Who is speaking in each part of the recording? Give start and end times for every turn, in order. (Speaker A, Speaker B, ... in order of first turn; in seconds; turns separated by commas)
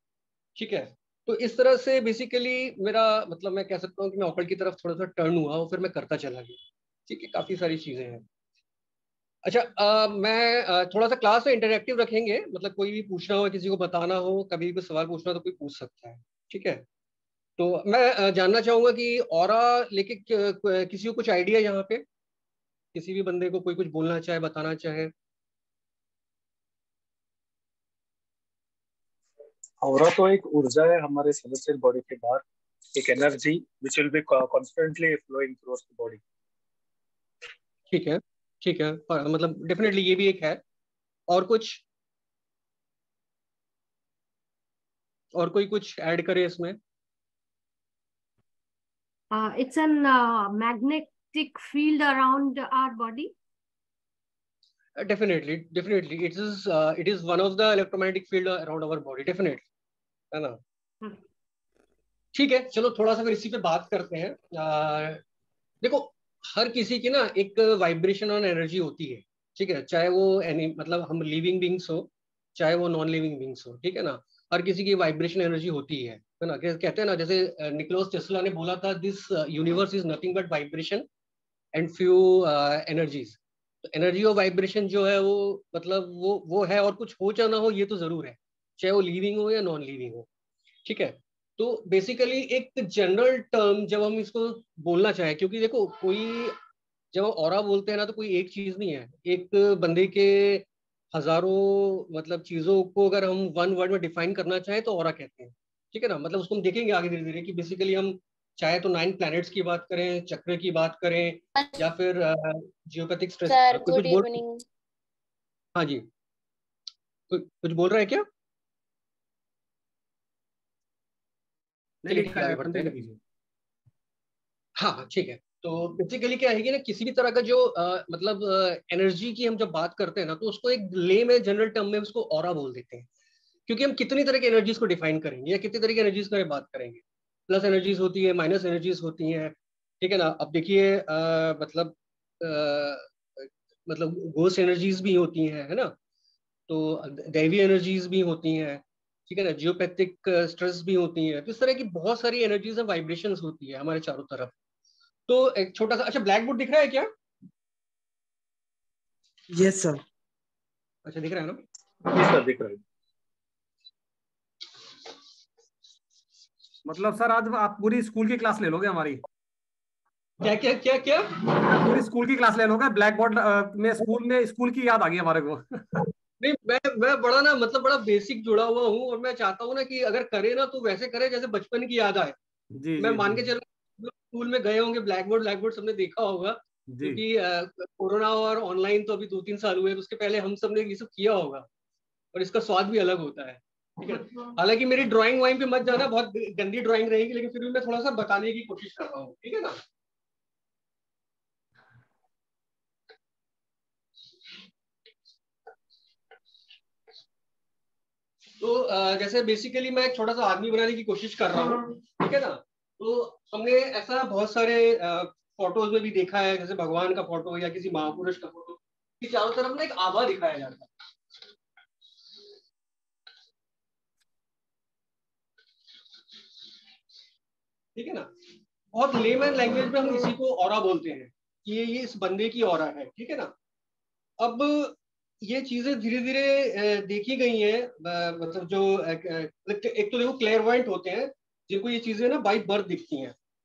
Speaker A: 0.6-8.2, Speaker A: 9.4-16.8, Speaker A: 17.6-22.0, Speaker A: 22.9-25.1, Speaker B: 29.8-32.4, Speaker B: 33.0-36.2, Speaker A: 37.9-40.6, Speaker A: 41.3-41.8, Speaker A: 45.3-46.8, Speaker C: 49.3-53.3, Speaker A: 55.0-59.6, Speaker A: 60.3-60.6, Speaker A: 62.3-65.2, Speaker A: 65.8-81.1, Speaker A: 81.7-90.3, Speaker A: 90.8-96.6, Speaker A: 97.1-114.3, Speaker C: 113.5-114.5, Speaker A: 115.8-116.1, Speaker A: 117.3-118.3, Speaker D: 122.0-123.2, Speaker A: 122.1-122.9, Speaker A: 124.8-133.1, Speaker A: 133.7-145.9, Speaker A: 146.7-154.5, Speaker A: 155.3-157.1, Speaker A: 161.1-161.6, Speaker B: 162.1-162.8, Speaker D: 166.9-169.2, Speaker A: 170.4-171.3, Speaker D: 171.7-175.9, Speaker A: 176.4-182.4, Speaker D: 182.8-183.4, Speaker A: 183.0-191.7, Speaker D: 186.9-187.2, Speaker A: 192.3-199.8, Speaker A: 208.6-220.9, Speaker A: 228.0-228.3, Speaker A: 228.9-233.5, Speaker A: 234.4-243.3